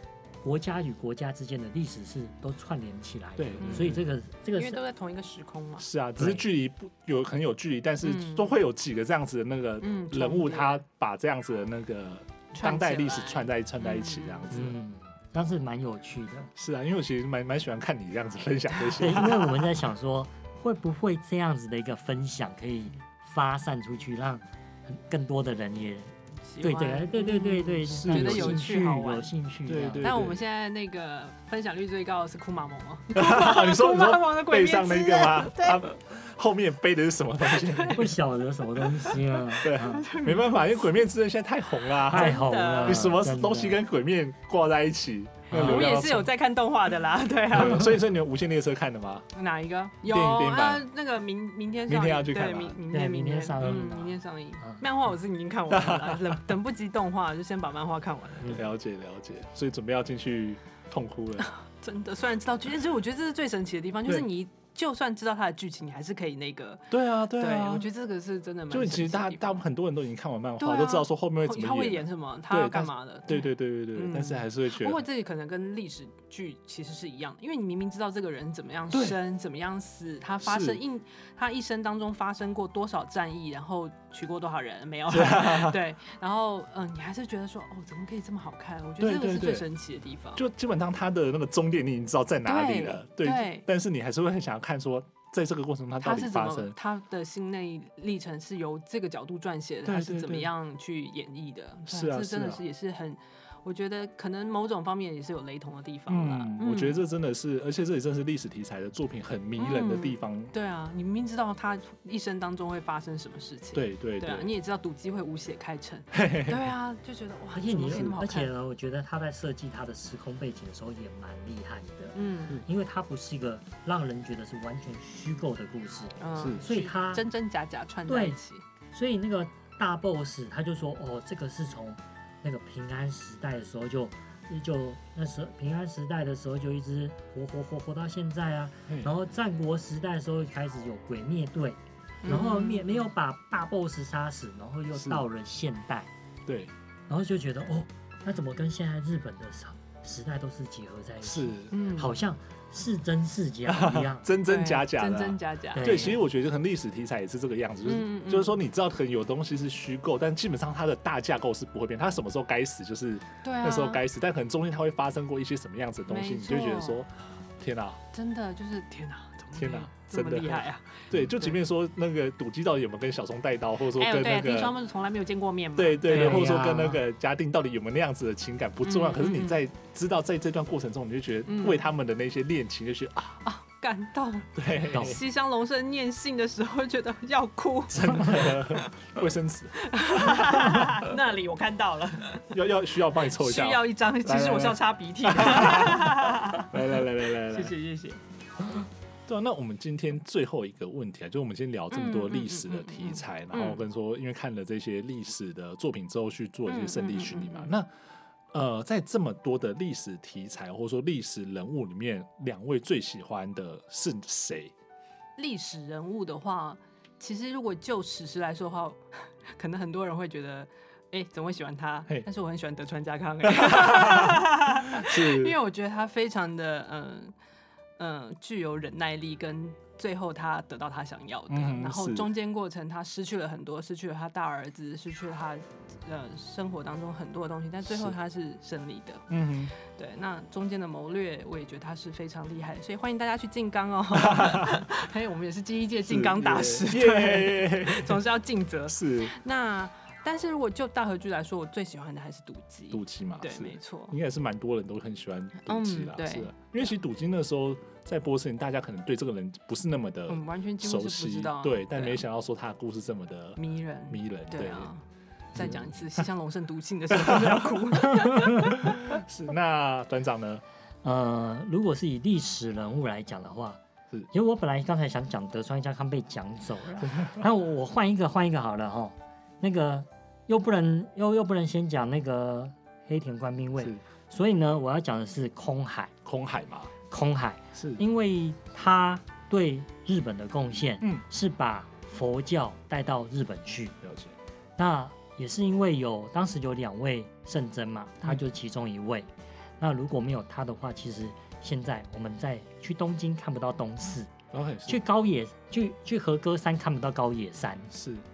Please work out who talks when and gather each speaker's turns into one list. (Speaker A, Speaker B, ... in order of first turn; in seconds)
Speaker A: 0.4-4.8, 6.2-6.4, 14.5-16.5, 19.0-30.1, 37.9-40.1, 42.1-43.8, 45.5-45.9, 52.9-54.8, 117.5-127.2, 128.1-128.4, 128.9-146.1, 147.1-154.3, 155.7-156.2, 176.1-177.0, 184.9-185.2, 268.5-268.8, 271.0-286.1, 287.1-294.0, 294.8-304.3, 304.9-307.9
Speaker B: 3.4-4.0, 5.8-14.8, 16.6-19.5, 27.9-28.8, 29.7-30.4, 33.1-38.1, 39.6-46.3, 47.5-49.3, 50.1-50.8, 51.9-52.8, 55.7-56.4, 58.5-61.5, 66.9-67.9, 68.7-75.0, 78.9-79.2, 80.4-80.8, 85.1-85.8, 89.0-89.7, 90.3-96.8, 99.8-100.5, 101.9-102.6, 106.1-110.5, 113.7-114.5, 116.1-116.7, 117.9-118.1, 144.9-145.2, 146.4-146.7, 151.2-151.7, 153.7-168.0, 169.5-174.7, 175.8-183.4, 184.5-185.2, 187.9-190.9, 192.5-197.7, 199.3-207.9, 208.5-214.7, 223.4-225.6, 231.5-232.3, 237.8-238.1, 239.3-239.7, 244.1-244.8, 246.0-248.2, 248.9-249.3, 252.9-264.9, 267.1-267.6, 268.7-270.6, 286.2-286.9, 287.7-288.0, 294.0-294.3, 304.5-305.0, 307.9-308.2
Speaker C: 3.6-4.0, 4.5-5.9, 8.0-8.6, 9.8-10.8, 12.5-14.7, 18.9-19.5, 26.5-29.3, 30.0-35.9, 37.5-38.0, 39.8-41.0, 42.1-43.1, 45.5-48.0, 49.3-58.6, 61.4-69.6, 70.6-90.4, 92.4-93.7, 96.0-107.0, 109.6-118.5, 122.1-122.6, 126.2-128.6, 142.2-143.0, 151.7-152.1, 154.4-156.1, 157.8-158.6, 163.4-164.0, 166.1-167.0, 168.1-171.6, 173.9-176.6, 178.8-179.6, 181.5-181.8, 183.4-189.1, 189.8-192.5, 193.3-198.2, 201.9-203.8, 206.7-207.7, 215.4-227.3, 228.0-239.3, 239.8-254.1, 255.6-256.6, 260.3-262.2, 263.6-265.0, 265.5-269.2